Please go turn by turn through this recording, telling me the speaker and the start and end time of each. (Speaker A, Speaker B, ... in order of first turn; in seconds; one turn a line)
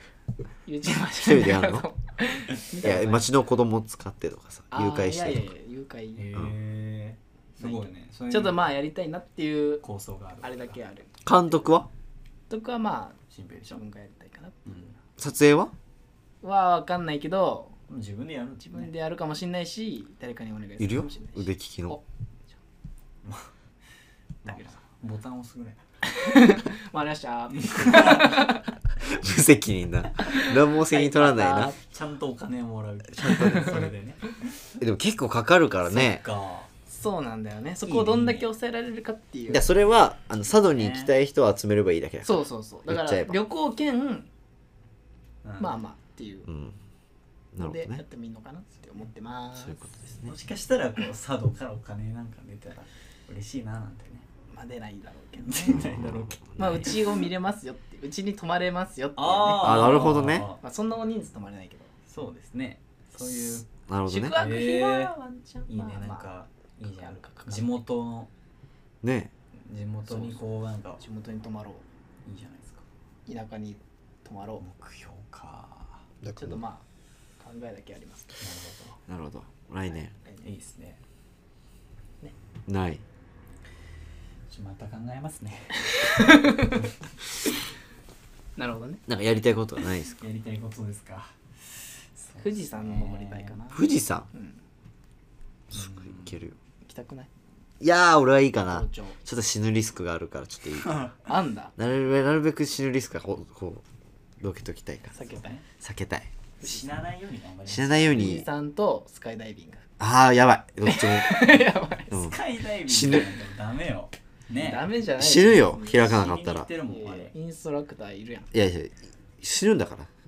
Speaker A: 0.6-3.3
Speaker B: 1.1-1.9
Speaker B: 2.8-5.5
Speaker A: 4.7-6.3
Speaker C: 6.1-8.6
Speaker A: 7.6-9.8
Speaker C: 9.8-10.8
Speaker A: 10.4-11.6
Speaker B: 11.2-11.9
Speaker A: 12.5-14.9
Speaker C: 13.3-13.8
Speaker C: 14.7-14.9
Speaker B: 15.2-15.7
Speaker A: 16.4-17.8
Speaker C: 17.9-18.9
Speaker A: 18.6-22.0
Speaker B: 20.8-22.0
Speaker C: 23.2-23.5
Speaker C: 24.4-25.8
Speaker A: 24.4-24.8
Speaker A: 26.0-28.7
Speaker C: 27.6-28.5
Speaker B: 29.1-31.7
Speaker A: 30.2-31.8
Speaker C: 31.3-34.3
Speaker B: 33.2-33.8
Speaker A: 33.4-33.8
Speaker B: 34.8-36.2
Speaker C: 35.8-36.7
Speaker A: 36.9-39.7
Speaker C: 37.8-38.5
Speaker B: 39.5-43.4
Speaker C: 40.5-41.1
Speaker A: 42.2-44.3
Speaker C: 45.4-45.7
Speaker A: 45.6-46.5
Speaker B: 46.5-46.8
Speaker B: 47.5-48.0
Speaker A: 47.6-49.8
Speaker B: 49.6-50.3
Speaker C: 50.2-54.3
Speaker A: 54.5-55.9
Speaker C: 55.4-56.9
Speaker B: 55.7-56.9
Speaker A: 56.6-61.9
Speaker C: 59.1-60.6
Speaker B: 59.6-60.5
Speaker C: 62.1-63.7
Speaker B: 63.9-64.4
Speaker A: 64.1-66.3
Speaker C: 64.3-65.1
Speaker C: 65.7-68.3
Speaker A: 66.8-67.8
Speaker B: 69.0-69.3
Speaker C: 69.5-71.0
Speaker A: 70.1-70.4
Speaker A: 71.0-71.8
Speaker C: 72.2-72.8
Speaker A: 73.2-74.6
Speaker C: 74.6-76.0
Speaker B: 76.2-76.6
Speaker A: 76.3-76.8
Speaker A: 77.4-78.3
Speaker C: 78.4-79.0
Speaker B: 79.1-80.1
Speaker C: 80.4-81.0
Speaker B: 82.7-83.0
Speaker C: 84.5-86.9
Speaker A: 86.0-86.8
Speaker A: 88.6-89.0
Speaker B: 89.1-90.2
Speaker C: 90.2-93.6
Speaker A: 92.4-94.6
Speaker B: 93.7-94.3
Speaker C: 95.7-96.4
Speaker B: 95.7-96.5
Speaker A: 96.8-97.3
Speaker B: 97.8-101.0
Speaker A: 98.7-99.2
Speaker C: 100.8-101.2
Speaker A: 101.2-101.7
Speaker B: 101.8-103.8
Speaker B: 104.4-105.2
Speaker A: 105.1-105.6
Speaker C: 105.3-105.6
Speaker B: 105.8-106.3
Speaker C: 106.6-108.4
Speaker A: 106.6-106.9
Speaker B: 107.7-108.5
Speaker A: 108.1-109.9
Speaker B: 110.0-113.3
Speaker A: 110.8-112.2
Speaker C: 112.1-114.8
Speaker A: 114.6-116.2
Speaker B: 115.2-116.7
Speaker C: 116.0-117.3
Speaker A: 116.9-118.5
Speaker B: 118.5-120.1